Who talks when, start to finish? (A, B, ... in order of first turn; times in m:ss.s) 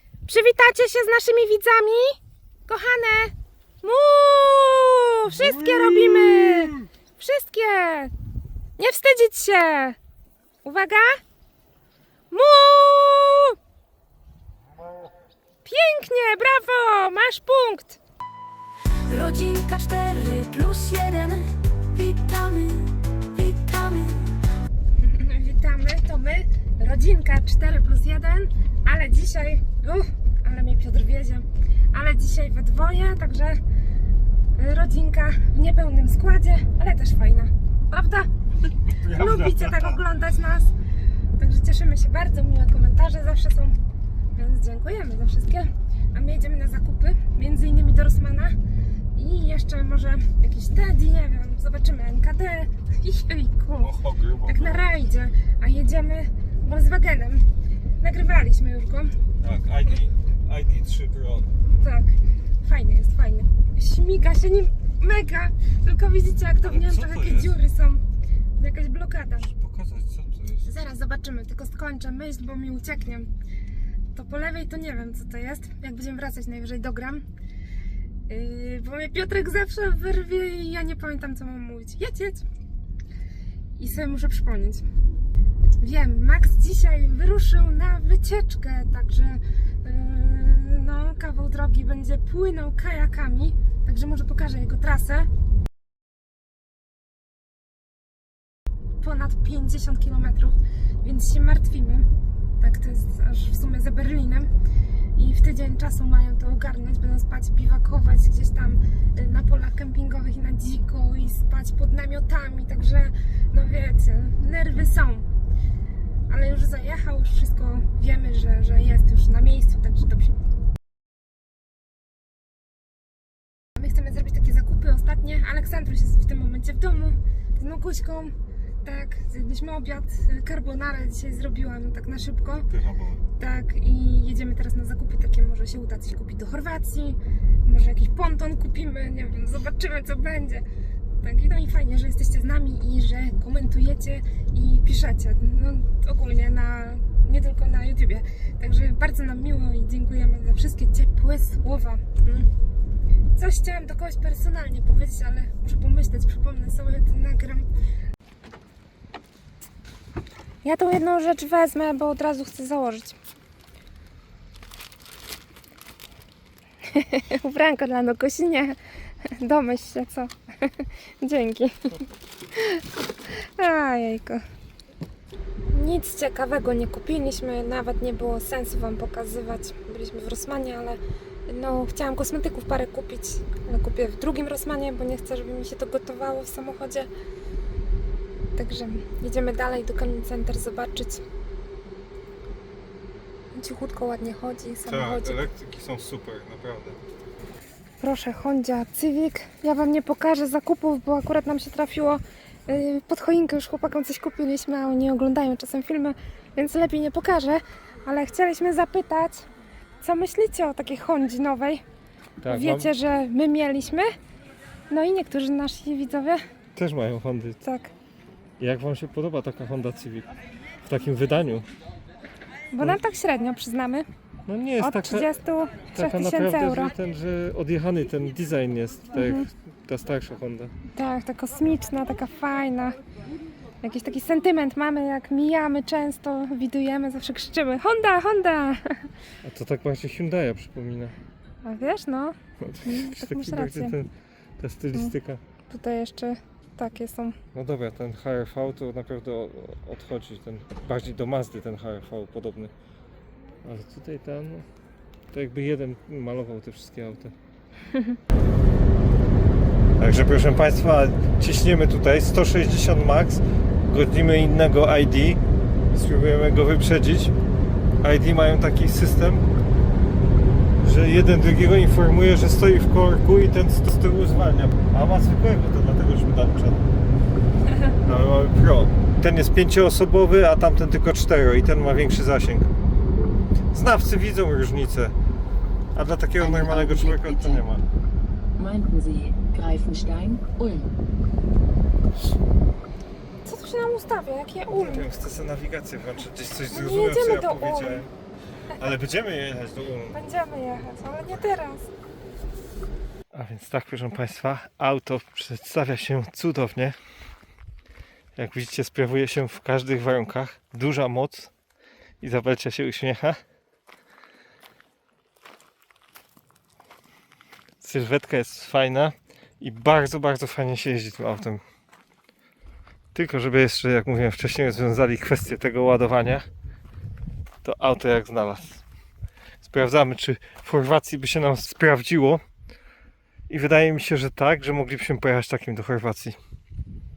0:00.3-0:08.1 A
0:05.4-0:06.7 B
0:08.8-0:10.0 A
0:10.6-0:11.2 A
0:12.3-0:13.6 A
0:15.6-0:18.0 A
0:19.1-0:24.4 C
0:25.0-0:33.6 A
0:34.6-0:38.3 A
0:38.9-0:40.0 B
0:39.0-0:40.7 A
0:41.4-0:43.8 A
0:44.4-0:48.6 A
0:49.1-0:57.5 A
0:53.8-0:54.9 B
0:58.0-0:59.2 A
0:59.4-1:01.5 B
1:01.8-1:08.0 A
1:06.6-1:07.6 B
1:08.6-1:09.5 A
1:09.4-1:10.7 B
1:10.6-1:13.3 A
1:14.1-1:17.3 A
1:18.3-1:22.4 A
1:23.8-1:24.8 A
1:25.8-1:35.3 A
1:39.0-1:42.1 A
1:42.6-1:44.5 A
1:45.2-1:55.3 A
1:56.3-2:00.4 A
2:03.8-2:12.7 A
2:12.7-2:13.2 B
2:13.4-2:20.6 A
2:21.2-2:32.5 A
2:33.4-2:37.7 A
2:40.6-2:43.2 A
2:46.9-2:54.4 A
2:55.7-3:07.1 A
3:08.6-3:11.2 A
3:13.5-3:15.4 A
3:14.9-3:17.0 B
3:18.0-3:29.5 A
3:30.0-3:31.8 A
3:32.4-3:32.9 B
3:32.5-3:34.1 A
3:34.9-3:36.4 A
3:36.8-3:37.6 B
3:37.6-3:37.9 A
3:38.6-3:40.3 B
3:40.8-3:41.7 B
3:42.7-3:44.1 A
3:44.5-3:45.3 B
3:44.8-3:47.0 A
3:45.9-3:50.7 B
3:49.1-3:49.5 A
3:50.9-3:53.0 A
3:53.8-3:59.1 A
3:59.4-4:01.1 B
4:01.6-4:04.0 A
4:02.6-4:05.4 B
4:05.7-4:07.4 A
4:07.5-4:12.7 B
4:13.6-4:14.7 B
4:15.3-4:17.3 B
4:20.0-4:25.4 B
4:25.9-4:27.3 B
4:28.0-4:29.4 B
4:30.8-4:36.8 B
4:38.0-4:42.7 B
4:43.7-4:45.1 B
4:46.0-4:47.8 B
4:46.4-4:47.6 D
4:48.6-4:50.9 D
4:53.4-4:55.1 A
4:54.7-4:58.1 B
4:56.7-4:58.1 A
4:58.7-5:00.2 B
5:00.1-5:01.9 A
5:03.3-5:07.0 B
5:08.4-5:11.5 B
5:12.2-5:13.4 B
5:17.8-5:21.6 B
5:23.1-5:26.5 B
5:27.6-5:28.8 B
5:29.6-5:32.4 B
5:33.5-5:36.4 B